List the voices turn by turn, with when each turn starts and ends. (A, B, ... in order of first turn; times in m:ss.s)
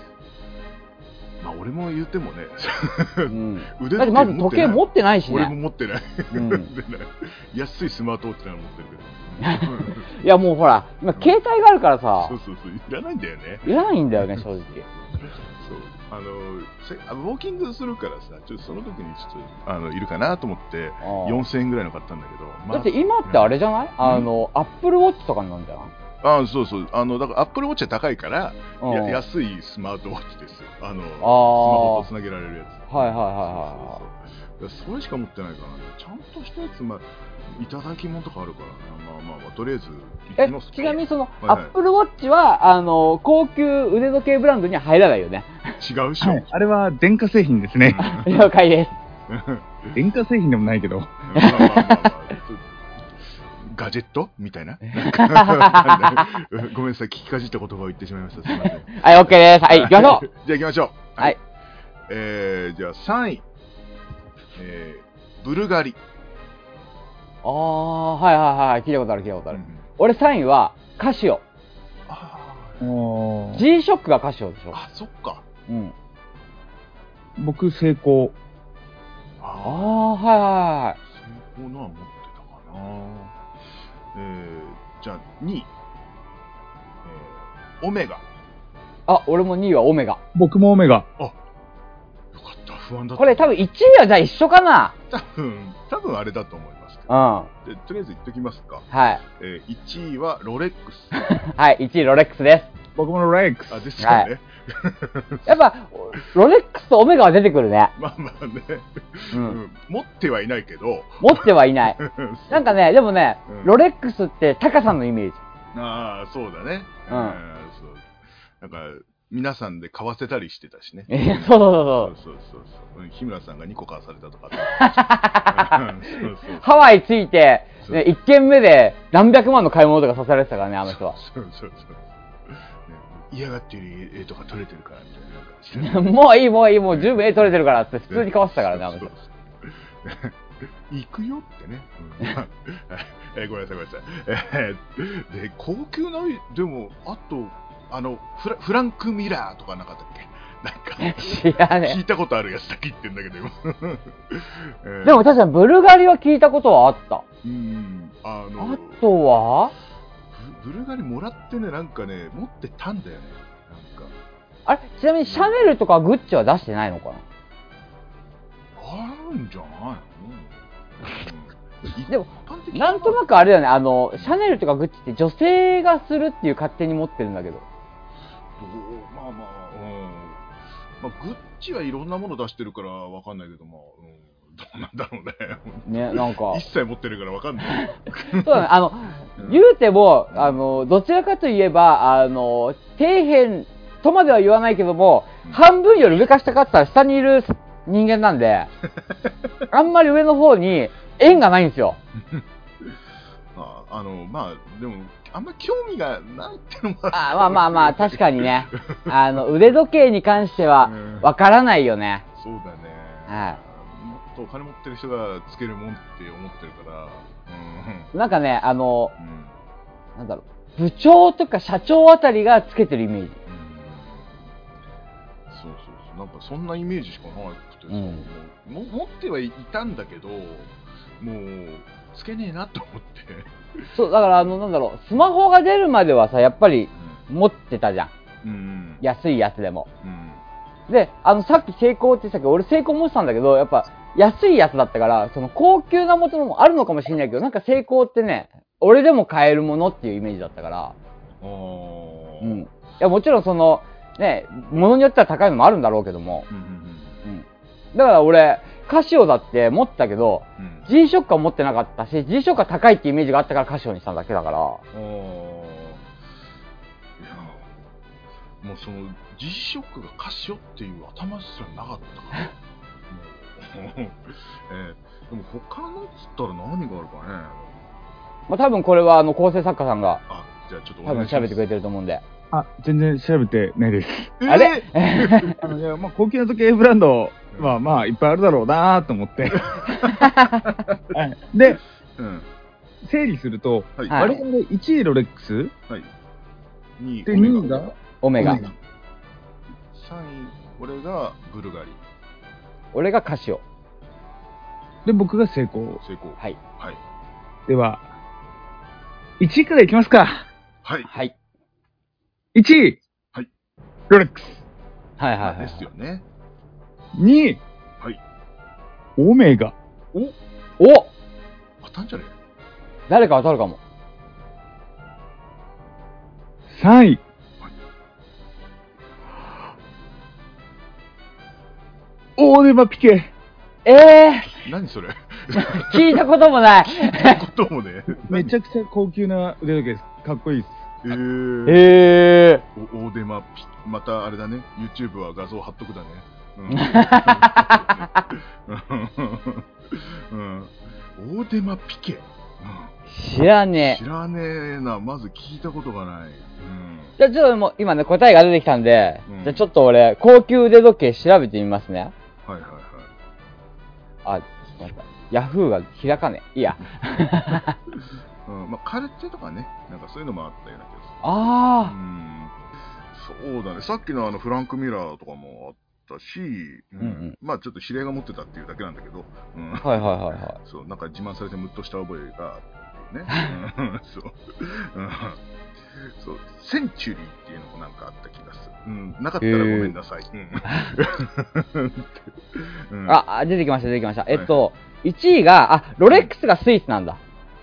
0:01.4-0:10.1 A
0:03.3-0:05.5 B
0:06.3-0:06.7 B
0:09.4-0:12.4 B
0:12.2-0:24.3 A
0:13.6-0:14.8 B
0:21.0-0:21.4 B
0:22.7-0:25.9 B
0:26.2-0:41.7 A
0:28.8-0:29.2 B
0:31.2-0:32.1 B
0:32.9-0:34.0 B
0:40.4-0:45.7 B
0:45.8-0:46.5 A
0:46.2-0:48.2 C
0:47.8-0:48.4 A
0:48.0-0:49.0 B
0:49.3-0:49.9 A
0:49.9-0:51.2 C
0:51.3-0:52.6 A
0:51.3-0:52.1 B
0:53.5-1:01.4 A
0:54.9-0:56.2 B
0:58.5-1:00.3 B
1:02.1-1:03.4 A
1:04.6-1:06.0 A
1:07.4-1:11.4 B
1:09.5-1:09.8 A
1:12.1-1:12.9 A
1:12.8-1:13.6 C
1:13.6-1:14.8 B
1:14.7-1:15.4 A
1:15.7-1:15.9 B
1:17.4-1:18.3 C
1:19.4-1:20.1 A
1:19.6-1:21.0 B
1:21.0-1:23.4 A
1:24.1-1:25.7 A
1:27.0-1:28.2 A
1:29.1-1:30.2 B
1:30.3-1:31.1 C
1:32.3-1:33.6 A
1:33.2-1:35.0 B
1:35.1-1:37.1 A
1:37.1-1:37.5 B
1:37.6-1:38.8 A
1:38.9-1:39.2 B
1:39.4-1:41.2 A
1:41.3-1:42.7 B
1:42.9-1:43.8 C
1:43.7-1:45.6 A
1:44.0-1:44.3 B
1:45.4-1:47.9 B
1:48.0-1:51.4 A
1:49.3-1:49.6 B
1:51.2-1:55.4 B
1:52.0-1:52.7 A
1:53.5-1:53.7 A
1:55.7-2:06.7 A
1:57.1-1:57.4 B
2:01.1-2:02.1 B
2:04.8-2:05.8 B
2:06.6-2:11.2 B
2:10.9-2:16.1 A
2:15.8-2:19.1 B
2:16.9-2:17.6 A
2:18.1-2:20.4 A
2:20.9-2:35.2 A
2:31.0-2:32.0 B
2:35.0-2:37.2 B
2:37.4-2:39.0 A
2:38.6-2:39.7 B
2:40.3-2:44.1 A
2:44.6-2:47.2 B
2:45.2-2:45.8 A
2:48.8-2:53.5 A
2:52.1-2:57.6 B
2:58.6-3:00.4 A
3:01.0-3:08.7 A
3:05.8-3:06.6 B
3:07.7-3:18.7 B
3:09.4-3:09.6 A
3:10.3-3:10.6 A
3:19.7-3:22.0 B
3:22.2-3:23.0 A
3:23.5-3:29.2 A
3:27.1-3:32.2 B
3:30.8-3:31.3 A
3:32.4-3:38.1 A
3:33.3-3:33.6 B
3:38.1-3:39.1 B
3:39.2-3:39.6 A
3:40.2-3:43.4 B
3:43.4-3:44.5 A
3:45.5-3:54.4 A
3:47.9-3:48.2 B
3:53.9-3:58.1 B
3:56.9-3:57.2 A
3:58.4-3:59.0 A
3:59.0-3:59.9 B
4:00.0-4:00.4 A
4:00.9-4:11.0 B
4:11.4-4:12.6 A
4:12.4-4:16.5 B
4:16.5-4:17.2 A
4:17.2-4:24.8 B
4:20.6-4:20.9 A
4:24.9-4:26.0 A
4:27.2-4:27.8 A
4:28.6-4:32.5 A
4:33.1-4:37.8 A
4:38.5-4:40.2 B
4:40.3-4:41.6 A
4:41.0-4:42.2 B
4:42.5-4:44.3 C
4:44.4-4:45.6 A
4:44.5-4:45.6 B
4:45.6-4:49.7 C
4:47.5-4:47.8 A
4:49.5-4:51.1 A
4:51.1-4:51.8 C
4:52.2-4:52.5 A
4:53.0-4:55.7 C
4:54.0-4:54.3 A
4:54.1-4:54.4 B
4:57.0-4:58.7 A
4:57.2-4:58.7 C
4:58.2-4:58.6 B
4:59.9-5:02.0 A
5:02.9-5:03.6 B
5:05.0-5:06.0 C
5:06.0-5:07.0 A
5:07.7-5:08.1 C
5:09.4-5:10.4 C
5:10.8-5:11.1 A
5:11.1-5:11.3 B
5:12.5-5:13.0 C
5:14.1-5:14.6 C
5:15.2-5:15.9 B
5:15.4-5:16.2 A
5:17.1-5:17.6 C
5:19.2-5:19.8 C
5:20.1-5:21.1 B
5:21.8-5:22.3 A
5:23.1-5:23.8 B
5:26.7-5:27.2 C
5:32.4-5:33.3 C
5:33.8-5:34.6 B
5:34.5-5:36.2 A
5:35.7-5:37.4 B
5:36.8-5:38.5 A
5:38.2-5:40.8 C
5:41.0-5:41.9 A
5:41.7-5:42.6 B
5:42.8-5:52.9 A
5:46.7-5:48.0 B
5:53.1-5:54.0 B
5:53.8-5:57.2 A
5:57.2-6:02.1 B
5:59.3-5:59.6 A
6:02.4-6:03.1 A
6:04.2-6:07.8 B
6:07.9-6:11.2 A
6:11.2-6:11.9 B
6:11.8-6:12.5 A
6:13.1-6:25.4 A
6:17.0-6:17.4 B
6:19.8-6:20.6 B
6:25.9-6:33.2 A
6:29.4-6:29.9 B
6:30.7-6:30.9 B
6:33.0-6:37.2 B
6:34.3-6:34.6 A
6:36.1-6:36.3 A